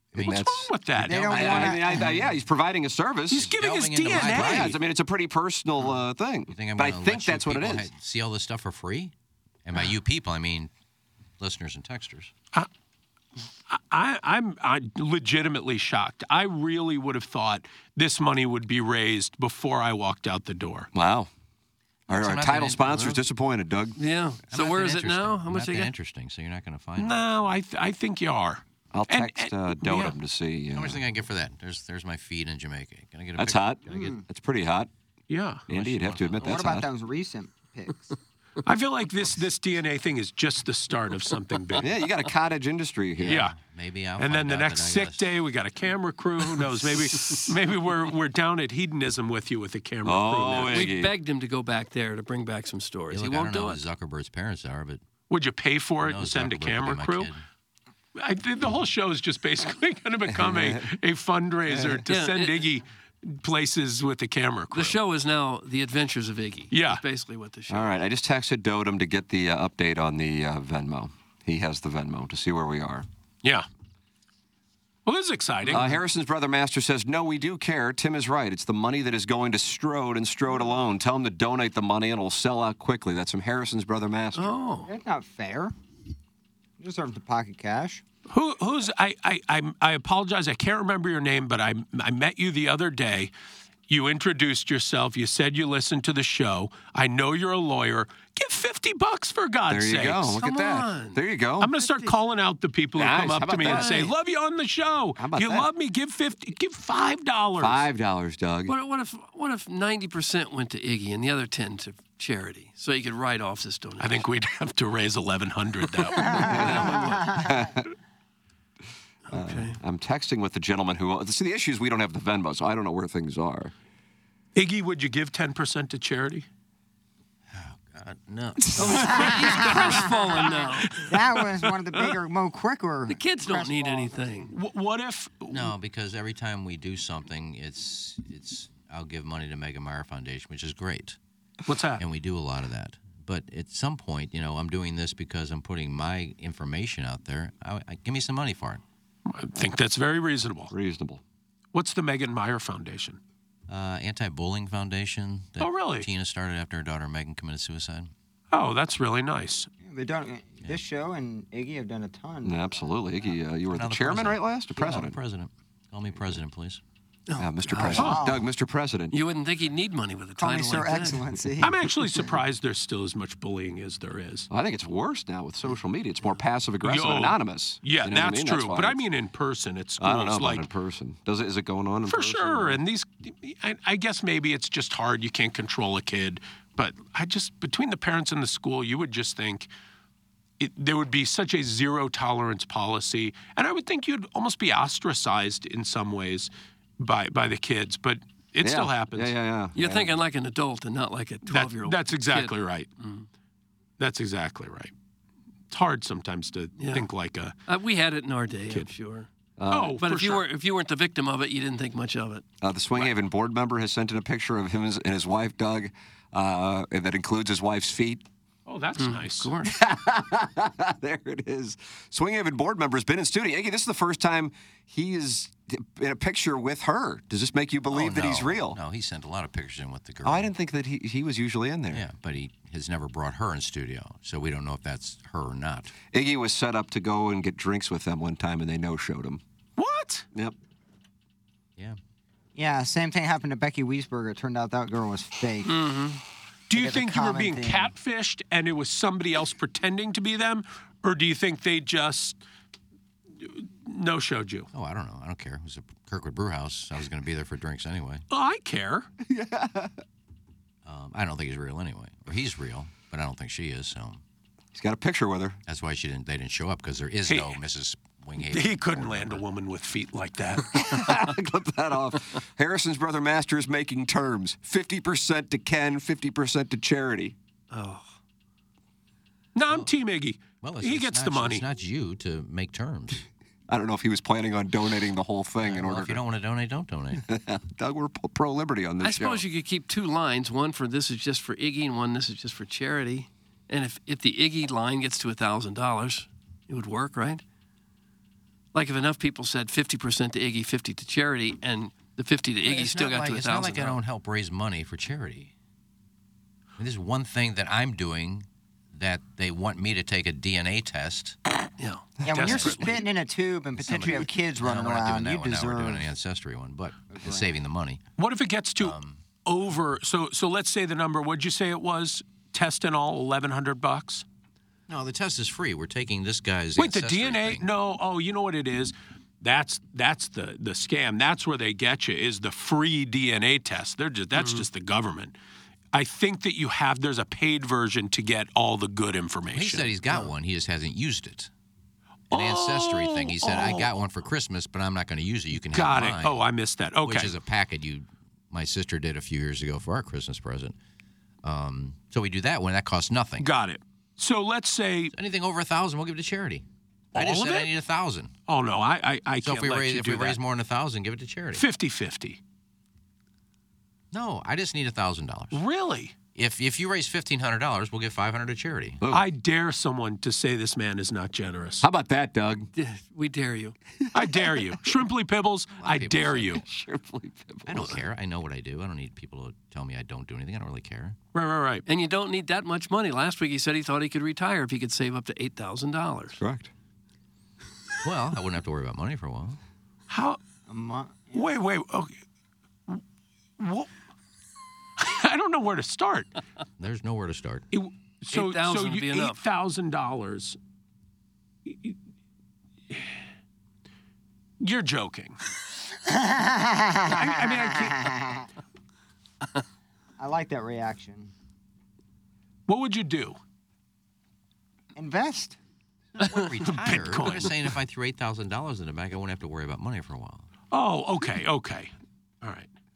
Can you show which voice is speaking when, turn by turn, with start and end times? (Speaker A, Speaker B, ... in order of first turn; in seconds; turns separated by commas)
Speaker A: 0.1-0.5, Speaker B: 0.1-0.7, Speaker C: 0.2-1.7, Speaker D: 1.0-2.3, Speaker A: 1.1-1.8, Speaker B: 1.3-3.5, Speaker C: 3.3-4.8, Speaker A: 3.3-4.8, Speaker B: 4.1-7.9, Speaker A: 6.5-9.1, Speaker A: 9.6-10.7, Speaker A: 11.4-12.3, Speaker C: 13.7-20.9, Speaker B: 20.9-21.3, Speaker B: 22.1-24.0, Speaker A: 22.1-23.2, Speaker E: 24.0-25.9, Speaker A: 24.5-27.2, Speaker C: 27.0-30.2, Speaker B: 28.9-31.0, Speaker A: 30.7-34.1, Speaker B: 33.4-34.9, Speaker D: 33.9-34.2, Speaker C: 35.3-35.6, Speaker B: 35.7-36.9, Speaker A: 35.7-36.8, Speaker D: 36.4-38.1, Speaker C: 38.6-41.9, Speaker B: 41.8-43.5, Speaker A: 43.2-45.3, Speaker C: 43.2-43.5, Speaker C: 44.2-50.9, Speaker B: 50.0-51.1, Speaker E: 50.6-53.8, Speaker A: 53.1-55.0, Speaker C: 55.3-57.3, Speaker A: 56.0-57.4, Speaker C: 58.2-65.0, Speaker B: 60.3-60.9, Speaker B: 61.7-62.0, Speaker E: 62.1-62.6, Speaker E: 64.7-67.9, Speaker C: 66.7-67.0, Speaker B: 67.7-73.0, Speaker C: 75.0-76.0, Speaker B: 75.7-84.5, Speaker E: 84.3-84.9, Speaker D: 84.8-85.7, Speaker D: 86.8-88.0, Speaker C: 88.3-93.3, Speaker C: 93.9-100.4, Speaker B: 99.7-101.7, Speaker E: 100.4-101.2, Speaker C: 101.6-107.8, Speaker E: 101.7-102.1, Speaker B: 102.9-104.1, Speaker E: 103.6-104.1, Speaker B: 105.2-105.7, Speaker B: 107.6-108.7, Speaker E: 108.7-114.3, Speaker C: 114.0-116.5, Speaker E: 116.1-117.3, Speaker D: 116.2-117.5, Speaker B: 116.3-117.9, Speaker E: 119.3-119.8, Speaker B: 119.3-123.7, Speaker C: 124.5-126.5, Speaker A: 127.5-129.1, Speaker E: 128.8-131.1, Speaker D: 128.8-130.5, Speaker C: 129.6-131.2, Speaker D: 131.1-134.5, Speaker E: 133.1-134.5, Speaker C: 134.5-135.7, Speaker A: 135.5-141.2, Speaker C: 141.7-142.0, Speaker A: 142.0-148.8, Speaker C: 149.3-150.7, Speaker B: 150.7-151.2, Speaker C: 151.7-153.2, Speaker A: 153.7-158.1, Speaker C: 155.6-156.1, Speaker C: 158.5-159.7, Speaker D: 159.8-162.8, Speaker B: 162.4-165.2, Speaker A: 163.7-166.8, Speaker E: 167.3-168.1, Speaker B: 167.4-169.1, Speaker D: 167.8-168.4, Speaker C: 167.9-168.2, Speaker E: 169.1-171.2, Speaker D: 170.4-172.2, Speaker C: 171.6-174.5, Speaker B: 174.5-179.0, Speaker C: 176.8-180.7, Speaker B: 180.0-182.8, Speaker C: 182.1-189.7, Speaker C: 190.6-199.3, Speaker B: 198.6-200.1, Speaker E: 199.7-203.2, Speaker C: 201.4-202.9, Speaker C: 204.0-204.9, Speaker C: 205.7-207.5, Speaker E: 206.8-207.1, Speaker E: 207.7-209.3, Speaker B: 209.6-210.0, Speaker C: 209.7-210.4, Speaker E: 210.0-212.4, Speaker B: 212.6-218.2, Speaker C: 218.7-219.5, Speaker E: 219.0-219.7, Speaker B: 219.6-228.8, Speaker A: 227.9-230.5, Speaker B: 230.2-232.1, Speaker A: 231.9-235.9, Speaker B: 236.1-239.4, Speaker C: 239.8-240.3, Speaker D: 242.6-245.8, Speaker E: 245.6-246.2, Speaker C: 246.7-252.4, Speaker D: 246.7-247.9, Speaker C: 253.4-254.7, Speaker A: 254.7-258.2, Speaker C: 258.3-259.1, Speaker B: 259.2-259.9, Speaker A: 260.8-264.2, Speaker B: 264.7-265.6, Speaker A: 265.6-269.4, Speaker C: 267.3-267.6, Speaker C: 268.4-270.8, Speaker B: 270.7-277.3, Speaker E: 277.7-278.1, Speaker C: 279.5-281.6, Speaker A: 280.6-283.2, Speaker B: 283.7-286.2, Speaker A: 285.6-287.2, Speaker B: 287.1-289.4, Speaker E: 289.0-297.4, Speaker E: 298.7-304.0, Speaker A: 302.6-305.5, Speaker A: 306.8-311.4, Speaker E: 311.8-312.1, Speaker D: 312.2-316.1, Speaker C: 312.3-312.9, Speaker A: 312.4-312.9, Speaker A: 313.8-318.0, Speaker D: 317.1-317.5, Speaker C: 318.2-324.2, Speaker A: 318.8-319.2, Speaker A: 324.9-327.7, Speaker C: 326.8-335.3, Speaker E: 334.3-334.6, Speaker C: 335.9-339.9, Speaker A: 339.5-341.5, Speaker C: 342.3-343.9, Speaker A: 342.3-346.4, Speaker C: 345.7-347.3, Speaker A: 347.0-350.7, Speaker A: 351.4-353.5, Speaker C: 353.4-355.1, Speaker A: 355.1-358.3, Speaker C: 357.1-357.7, Speaker C: 358.5-360.4, Speaker A: 359.4-361.6, Speaker C: 361.5-362.4, Speaker A: 364.1-365.6, Speaker C: 365.5-366.1, Speaker A: 366.3-369.0, Speaker C: 369.1-371.8, Speaker B: 371.8-372.7, Speaker E: 372.7-373.8, Speaker C: 374.1-376.6, Speaker B: 374.2-374.6, Speaker A: 375.8-376.6, Speaker B: 376.6-378.0, Speaker A: 377.7-381.2, Speaker C: 381.3-381.8, Speaker E: 381.9-386.4, Speaker B: 386.4-386.7, Speaker A: 388.0-389.6, Speaker C: 390.1-390.4, Speaker D: 390.7-391.5, Speaker C: 391.3-392.1, Speaker C: 393.6-393.9, Speaker C: 395.0-396.3, Speaker A: 396.8-397.6, Speaker C: 397.7-400.6, Speaker E: 398.3-399.4, Speaker C: 401.7-401.9, Speaker C: 404.6-405.4, Speaker D: 406.1-408.5, Speaker C: 407.1-408.1, Speaker D: 410.2-411.3, Speaker C: 412.7-413.4, Speaker D: 414.9-415.6, Speaker A: 416.2-420.5, Speaker C: 416.2-417.7, Speaker C: 420.7-422.7